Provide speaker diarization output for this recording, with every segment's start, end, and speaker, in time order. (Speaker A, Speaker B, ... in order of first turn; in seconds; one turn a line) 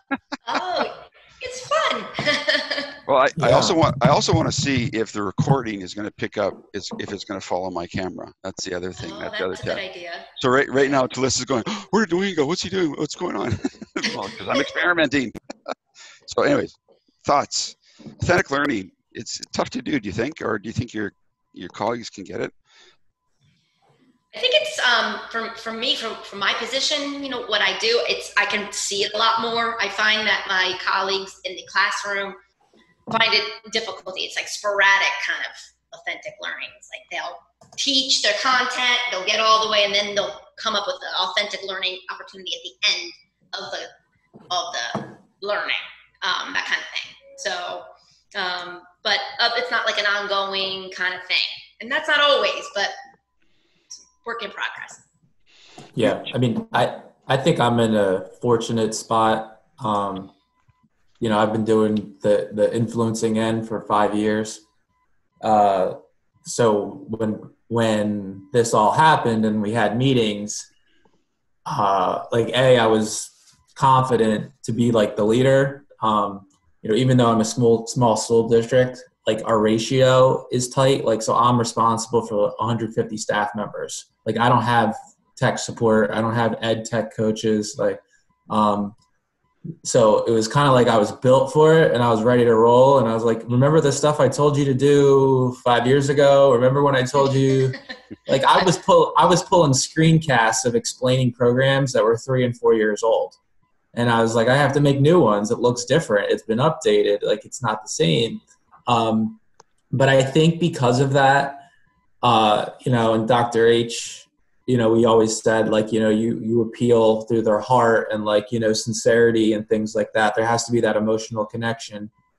Speaker A: 0.5-2.9
Speaker B: 3.0-9.8
Speaker C: 3.4-3.8
Speaker A: 9.0-10.3
Speaker B: 10.4-15.3
Speaker B: 16.3-22.5
Speaker A: 24.3-32.4
Speaker A: 33.1-43.9
Speaker A: 44.5-52.9
Speaker A: 54.1-55.0
Speaker C: 56.0-60.3
Speaker C: 61.2-64.6
Speaker C: 65.4-70.7
Speaker C: 71.7-89.0
Speaker C: 89.8-103.4
Speaker C: 103.9-109.4
Speaker C: 109.9-111.7
Speaker C: 112.2-122.1